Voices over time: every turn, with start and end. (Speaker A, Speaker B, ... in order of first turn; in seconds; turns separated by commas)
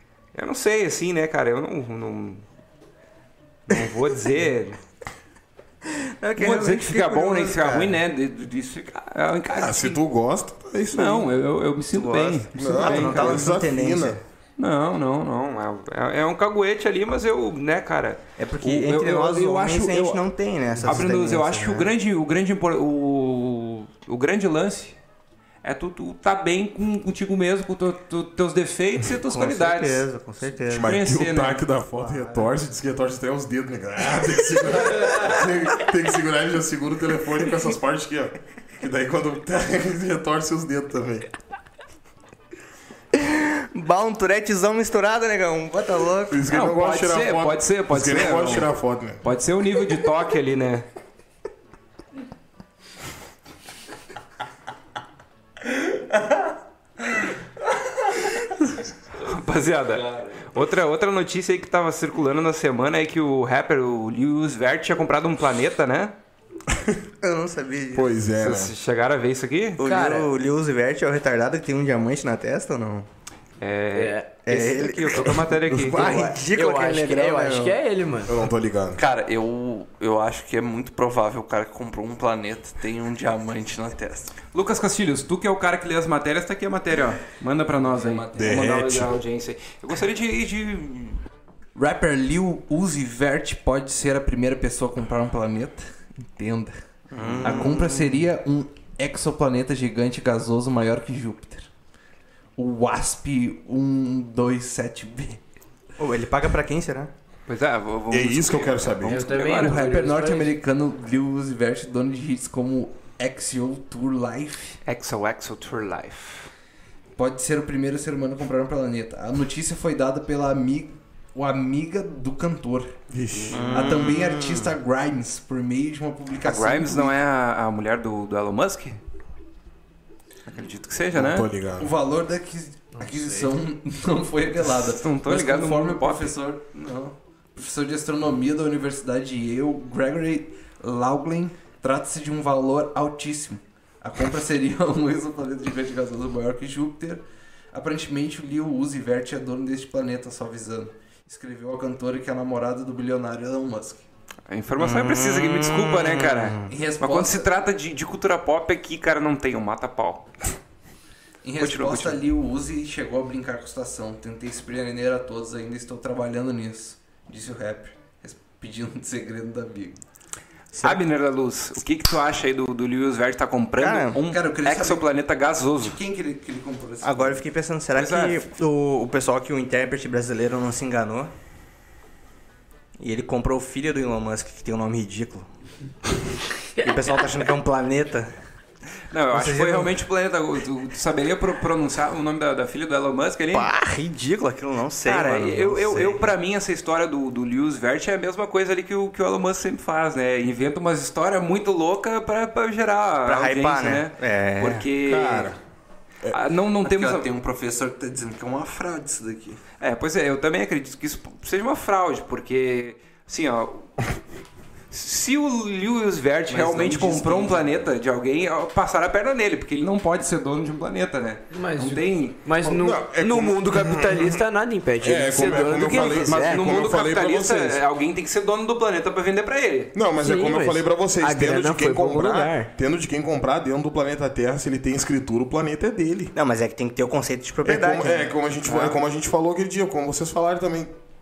Speaker A: 0.3-2.4, Speaker A: 3.7-4.8, Speaker B: 5.8-8.0, Speaker A: 6.4-10.0, Speaker C: 9.5-11.3, Speaker A: 10.9-13.5, Speaker B: 11.9-14.2, Speaker C: 12.5-14.2, Speaker A: 14.6-20.2, Speaker B: 18.4-21.9, Speaker A: 20.8-25.0, Speaker A: 25.6-30.1, Speaker B: 29.2-30.9, Speaker A: 30.6-31.6, Speaker C: 30.7-41.3, Speaker B: 31.9-32.5, Speaker B: 43.1-46.4, Speaker C: 46.3-49.2, Speaker A: 46.5-48.7, Speaker A: 49.2-50.9, Speaker A: 59.2-66.1, Speaker D: 59.9-60.5, Speaker B: 67.2-68.1, Speaker C: 67.9-68.7, Speaker A: 68.4-69.8, Speaker B: 69.8-73.1, Speaker E: 69.8-70.3, Speaker A: 73.6-76.3, Speaker E: 73.9-74.3, Speaker B: 74.5-77.8, Speaker E: 76.0-78.3, Speaker C: 78.3-79.0, Speaker D: 78.9-84.3, Speaker A: 84.5-91.2, Speaker D: 87.8-88.8, Speaker C: 88.3-89.1, Speaker D: 91.7-96.8, Speaker B: 97.1-98.2, Speaker D: 97.4-101.7, Speaker D: 102.6-105.4, Speaker B: 106.0-107.1, Speaker A: 107.5-110.0, Speaker C: 108.1-109.2, Speaker E: 109.0-110.5, Speaker D: 109.4-114.8, Speaker A: 114.8-116.5, Speaker D: 117.2-122.9, Speaker C: 123.1-123.9, Speaker A: 123.5-123.8, Speaker B: 123.5-124.7, Speaker D: 123.6-127.2, Speaker A: 126.4-129.0, Speaker A: 130.4-131.5, Speaker C: 131.1-131.9, Speaker D: 131.8-154.0, Speaker A: 134.8-136.3, Speaker A: 154.5-160.2, Speaker B: 154.8-156.7, Speaker D: 156.7-157.5, Speaker D: 161.4-170.0, Speaker A: 161.6-162.2, Speaker A: 170.7-176.0, Speaker B: 173.8-174.2, Speaker D: 174.1-175.1, Speaker D: 175.8-177.4, Speaker B: 177.0-181.3, Speaker A: 177.9-178.4, Speaker B: 183.0-185.4, Speaker B: 186.8-188.3, Speaker A: 189.1-193.7, Speaker B: 189.3-189.9, Speaker B: 193.5-196.2, Speaker A: 195.0-205.5, Speaker B: 203.2-205.2, Speaker C: 205.1-205.6, Speaker A: 206.3-207.3, Speaker D: 206.8-209.6, Speaker A: 209.8-214.1, Speaker A: 214.9-222.5, Speaker D: 216.5-217.8, Speaker E: 221.5-226.7, Speaker C: 222.6-224.4, Speaker C: 225.0-227.8, Speaker A: 225.5-229.9, Speaker C: 229.9-236.3, Speaker E: 230.2-232.7, Speaker B: 236.3-239.0, Speaker C: 237.6-240.9